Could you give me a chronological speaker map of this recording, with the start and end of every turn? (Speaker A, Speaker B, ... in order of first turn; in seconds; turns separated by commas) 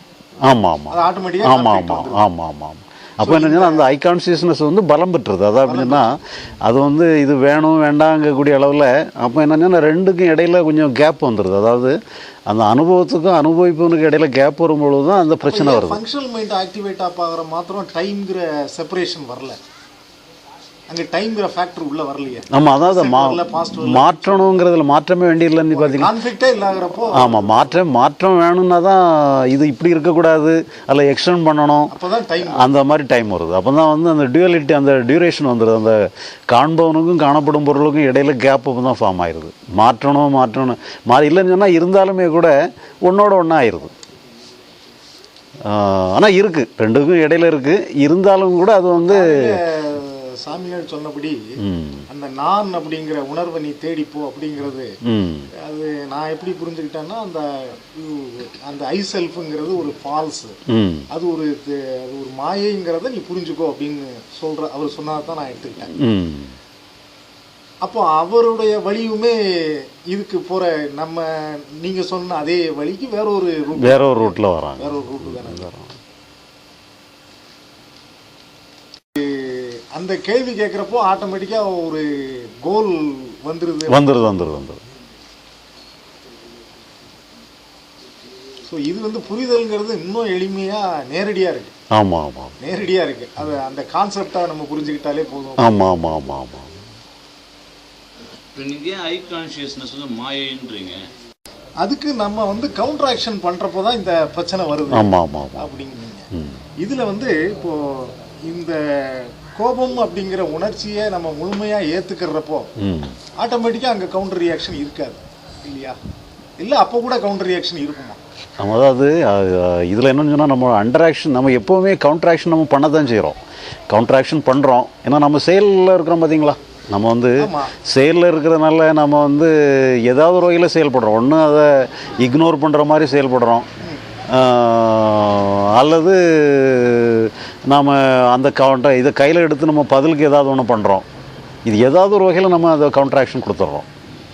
Speaker A: 0.5-12.0, Speaker B: 0.9-2.2, Speaker B: 3.2-3.9, Speaker B: 5.7-6.2, Speaker A: 12.5-16.0, Speaker B: 15.4-19.6, Speaker B: 20.9-24.6, Speaker A: 22.5-26.1, Speaker B: 25.7-27.5, Speaker A: 27.1-31.9, Speaker B: 31.9-32.6, Speaker A: 32.4-36.0, Speaker A: 36.5-43.9, Speaker A: 45.7-49.6, Speaker B: 49.1-51.4, Speaker A: 51.6-52.1, Speaker B: 52.1-54.9, Speaker A: 55.1-55.5, Speaker B: 55.6-60.6, Speaker A: 60.7-61.1, Speaker B: 61.1-65.9, Speaker A: 66.0-66.5, Speaker B: 67.8-75.7, Speaker A: 73.8-75.9, Speaker B: 79.2-84.0, Speaker A: 83.9-84.8, Speaker B: 88.7-91.7, Speaker A: 91.9-92.5, Speaker B: 92.6-95.9, Speaker A: 95.6-96.7, Speaker C: 98.6-101.1, Speaker B: 101.8-106.3, Speaker A: 104.9-105.7, Speaker B: 106.8-112.7, Speaker A: 112.8-113.2, Speaker B: 113.4-116.0, Speaker B: 116.6-118.2, Speaker A: 118.6-133.7, Speaker B: 127.4-127.7, Speaker A: 134.3-141.1, Speaker A: 141.7-143.9